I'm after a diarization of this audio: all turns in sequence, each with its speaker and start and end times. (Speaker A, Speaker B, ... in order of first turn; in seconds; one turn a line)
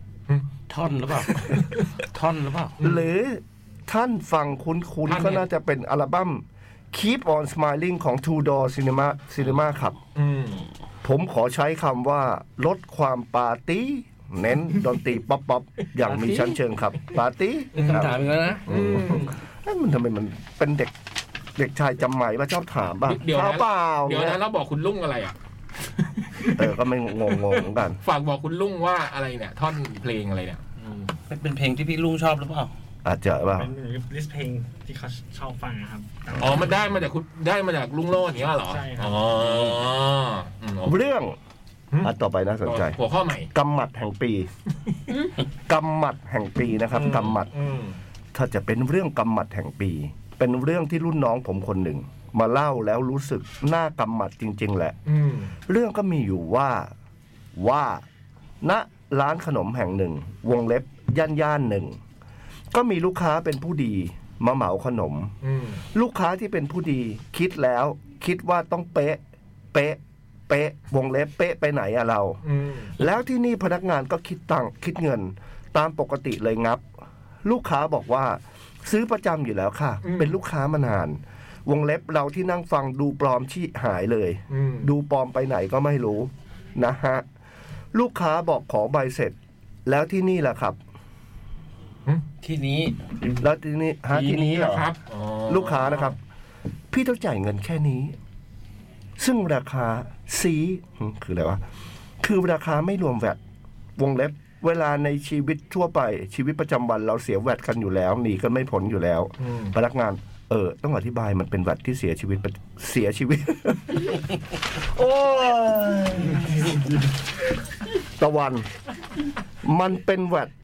Speaker A: 0.7-1.6
Speaker A: 2.1-2.7
Speaker B: 2.8-3.0
Speaker C: 2.8-10.0
Speaker B: 5.0-5.5
Speaker B: 10.1-10.6
Speaker C: 11.0-20.9
Speaker B: 17.7-18.1
Speaker A: 17.8-18.6
Speaker B: 18.6-19.3
Speaker C: 21.6-24.4
Speaker B: 23.1-25.3
Speaker B: 25.9-26.7
Speaker C: 26.6-28.0
Speaker B: 27.3-31.1
Speaker A: 31.3-32.7
Speaker C: 33.0-33.7
Speaker D: 33.5-36.7
Speaker B: 36.4-41.0
Speaker D: 38.7-39.2
Speaker C: 40.8-41.4
Speaker C: 42.0-43.0
Speaker B: 42.6-43.5
Speaker C: 43.5-44.5
Speaker C: 45.7-47.5
Speaker B: 46.9-48.0
Speaker C: 48.3-55.0
Speaker B: 55.0-55.5
Speaker C: 55.7-56.9
Speaker C: 57.6-58.0
Speaker C: 58.6-62.0
Speaker C: 62.7-65.3
Speaker B: 65.4-65.8
Speaker C: 65.9-69.2
Speaker C: 69.7-72.4
Speaker B: 72.4-72.9
Speaker C: 73.0-76.8
Speaker C: 77.4-87.2
Speaker B: 80.0-80.3
Speaker B: 84.5-84.9
Speaker C: 87.9-90.8
Speaker A: 92.4-93.0
Speaker C: 93.3-94.9
Speaker B: 94.1-96.1
Speaker C: 95.5-96.2
Speaker C: 96.9-98.2
Speaker C: 99.2-101.6
Speaker C: 102.2-103.4
Speaker C: 104.0-114.2
Speaker B: 109.4-109.7
Speaker C: 114.7-116.7
Speaker C: 118.2-118.7
Speaker C: 119.6-120.5